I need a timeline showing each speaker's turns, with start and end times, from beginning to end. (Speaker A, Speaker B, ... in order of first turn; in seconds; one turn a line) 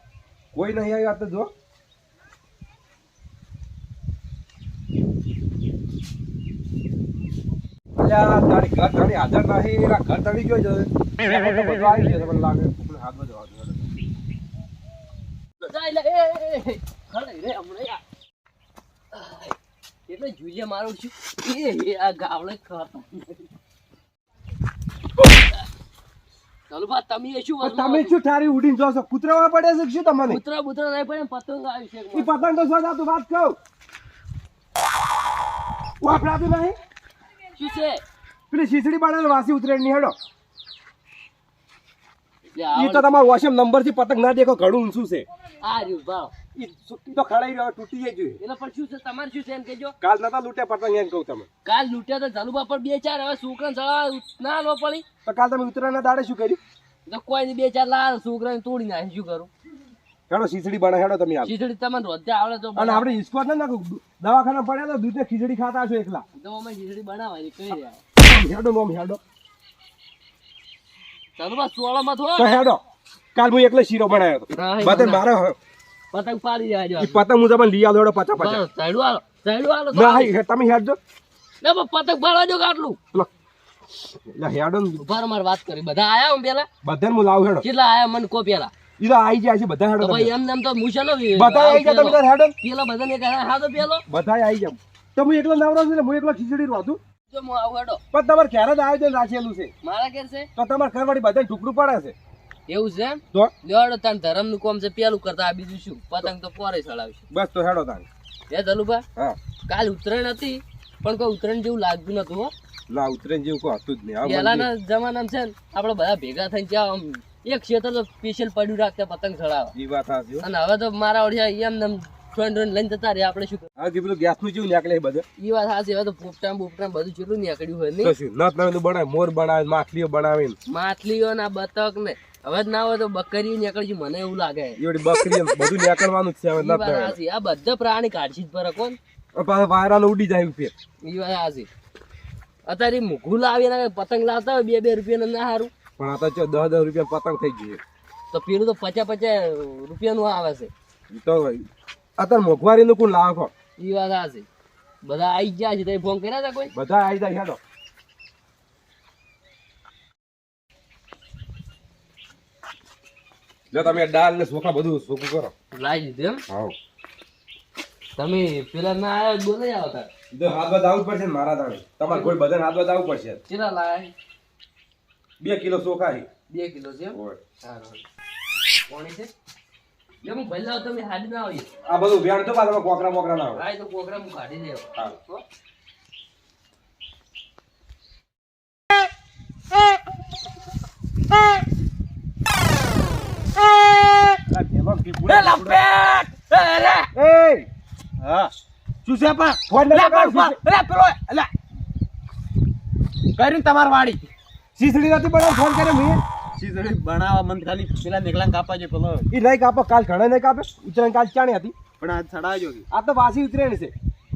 Speaker A: 0.5-1.5
Speaker A: 8.0-13.9
Speaker B: 15.6-18.0
Speaker B: 19.1-19.6
Speaker B: 20.1-23.4
Speaker B: 25.2-25.7
Speaker B: 26.7-28.2
Speaker A: 27.6-30.4
Speaker B: 30.3-32.3
Speaker A: 32.1-33.6
Speaker A: 36.0-36.8
Speaker B: 37.6-38.0
Speaker A: 38.5-40.1
Speaker B: 42.5-43.1
Speaker A: 42.7-45.2
Speaker B: 45.6-46.3
Speaker A: 46.5-48.4
Speaker B: 48.4-50.0
Speaker A: 50.0-51.5
Speaker B: 51.6-55.0
Speaker A: 55.2-56.6
Speaker B: 57.0-59.5
Speaker A: 60.3-61.5
Speaker B: 61.4-63.0
Speaker A: 62.7-66.2
Speaker B: 66.3-68.0
Speaker A: 68.2-69.2
Speaker B: 71.4-72.6
Speaker A: 72.3-72.8
Speaker A: 73.3-75.6
Speaker B: 74.5-75.2
Speaker B: 76.1-77.2
Speaker A: 77.0-78.6
Speaker B: 78.4-80.3
Speaker A: 79.9-81.0
Speaker B: 81.6-83.0
Speaker A: 84.2-85.0
Speaker B: 85.0-86.7
Speaker A: 86.8-87.7
Speaker B: 87.6-88.7
Speaker A: 89.0-90.3
Speaker B: 90.0-94.0
Speaker A: 91.3-92.5
Speaker A: 94.1-97.0
Speaker B: 97.3-98.0
Speaker A: 98.1-99.7
Speaker B: 99.8-100.5
Speaker A: 100.5-102.1
Speaker B: 102.7-107.2
Speaker A: 107.3-108.1
Speaker B: 108.5-109.0
Speaker B: 109.7-112.5
Speaker A: 112.9-114.7
Speaker B: 114.2-119.7
Speaker A: 119.7-120.5
Speaker B: 120.4-123.7
Speaker A: 123.8-125.2
Speaker B: 125.4-128.1
Speaker A: 128.0-130.6
Speaker B: 130.7-134.8
Speaker A: 134.8-137.2
Speaker B: 136.6-139.0
Speaker A: 139.3-140.7
Speaker B: 141.0-141.7
Speaker B: 142.7-145.7
Speaker A: 146.0-147.8
Speaker B: 148.3-150.7
Speaker A: 151.1-151.7
Speaker A: 152.2-153.5
Speaker B: 153.8-154.5
Speaker B: 155.0-156.7
Speaker A: 156.7-157.6
Speaker A: 163.7-165.5
Speaker B: 165.7-166.4
Speaker A: 166.5-166.7
Speaker B: 168.2-170.1
Speaker A: 170.3-173.4
Speaker B: 173.5-174.1
Speaker A: 175.4-176.3
Speaker B: 176.5-178.0
Speaker A: 177.1-177.4
Speaker B: 178.9-179.3
Speaker B: 180.2-181.7
Speaker A: 181.9-183.6
Speaker B: 183.5-185.4
Speaker A: 194.5-195.8
Speaker C: 195.2-197.1
Speaker A: 197.1-197.7
Speaker C: 198.2-198.5
Speaker C: 199.0-201.5
Speaker A: 199.7-200.6
Speaker C: 203.4-204.3
Speaker A: 204.8-206.2
Speaker C: 206.6-209.3
Speaker A: 209.3-211.7
Speaker C: 212.0-212.8
Speaker A: 212.9-213.9